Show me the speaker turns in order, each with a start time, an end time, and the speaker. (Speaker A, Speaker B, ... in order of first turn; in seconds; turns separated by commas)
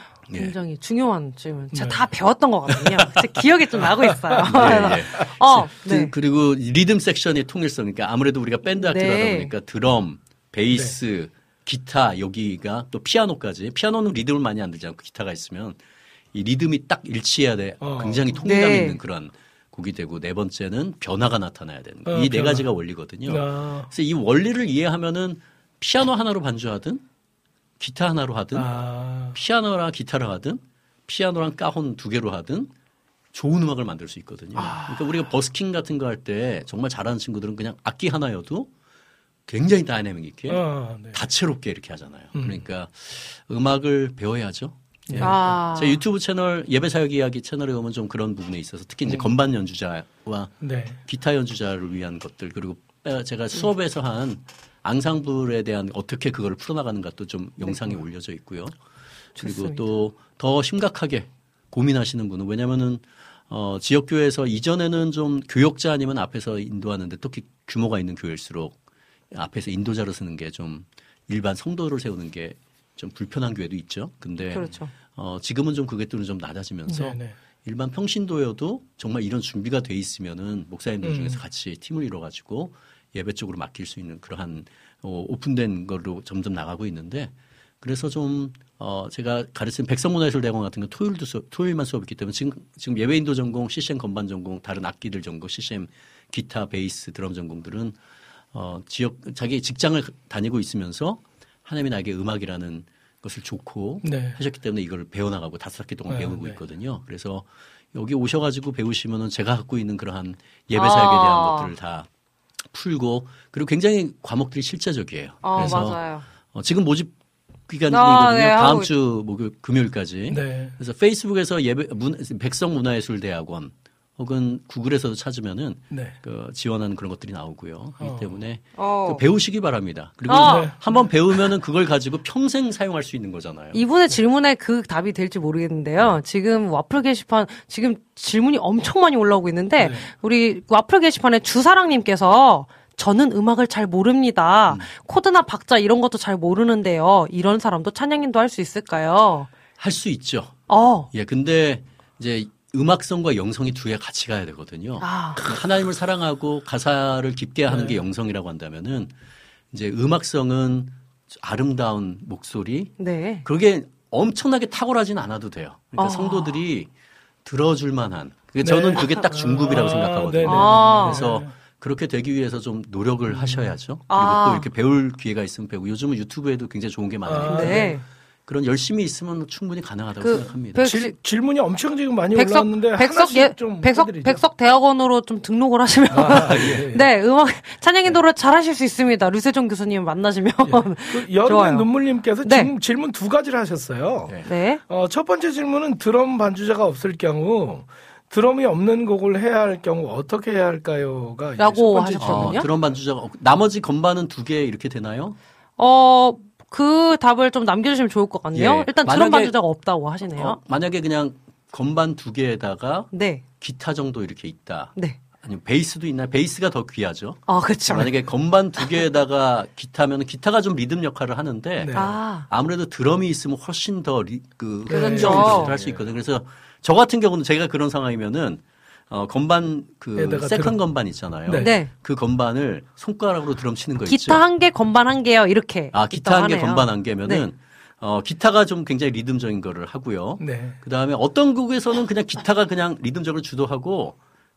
Speaker A: 0.3-0.5, Speaker B: 0.3-6.1, Speaker C: 1.7-2.1, Speaker A: 2.7-3.1, Speaker C: 3.8-5.1, Speaker A: 4.5-15.8, Speaker B: 8.8-9.5, Speaker C: 10.7-10.9, Speaker A: 16.3-27.0, Speaker C: 17.8-18.5, Speaker B: 18.4-19.0, Speaker C: 22.1-22.7, Speaker C: 23.2-23.9, Speaker A: 27.8-28.7, Speaker C: 28.5-29.4, Speaker A: 29.3-32.7, Speaker A: 33.3-38.7, Speaker C: 34.5-35.2, Speaker A: 39.5-58.8, Speaker C: 40.5-41.2, Speaker C: 42.3-42.6, Speaker C: 45.1-45.5, Speaker B: 45.2-46.0, Speaker C: 50.6-51.0, Speaker B: 59.4-59.9, Speaker A: 59.4-68.8, Speaker A: 69.3-98.0, Speaker B: 74.5-74.9, Speaker C: 76.9-77.3, Speaker C: 81.0-81.4, Speaker A: 98.5-112.1, Speaker C: 104.0-104.4, Speaker C: 106.1-106.6, Speaker B: 110.7-111.7, Speaker A: 112.7-117.1, Speaker B: 115.4-116.2, Speaker C: 115.6-115.9, Speaker A: 117.7-133.8, Speaker B: 117.9-118.9, Speaker C: 120.3-120.7, Speaker C: 125.9-126.2, Speaker C: 128.0-128.4, Speaker B: 128.8-129.2, Speaker B: 130.3-130.7, Speaker C: 130.4-131.0, Speaker B: 133.7-149.5, Speaker C: 139.8-140.1, Speaker A: 149.8-150.6, Speaker B: 150.7-151.1, Speaker A: 151.1-159.1, Speaker B: 155.0-155.4, Speaker C: 157.7-158.0, Speaker A: 159.7-166.9, Speaker B: 163.0-163.4, Speaker B: 166.0-166.6, Speaker A: 167.4-180.8, Speaker C: 168.6-171.5, Speaker B: 170.4-171.2, Speaker C: 173.3-173.7, Speaker B: 174.1-174.7, Speaker C: 177.2-178.0, Speaker B: 177.5-178.0, Speaker B: 180.2-181.1, Speaker C: 180.8-184.4, Speaker B: 182.3-191.9, Speaker C: 186.1-187.1, Speaker A: 186.3-186.9, Speaker C: 190.6-194.3, Speaker B: 192.4-192.7, Speaker B: 194.4-194.8, Speaker C: 194.9-202.8, Speaker B: 201.6-202.7, Speaker A: 202.2-205.4, Speaker B: 205.8-210.6, Speaker A: 208.5-209.6, Speaker A: 210.3-234.4, Speaker B: 213.1-213.4, Speaker B: 217.5-218.1, Speaker C: 221.8-222.1, Speaker B: 221.9-222.5, Speaker C: 224.8-226.1, Speaker B: 224.9-225.8, Speaker C: 230.1-230.8, Speaker C: 231.4-231.7, Speaker B: 231.6-231.9, Speaker B: 234.0-237.4, Speaker A: 235.9-244.2, Speaker C: 240.4-240.8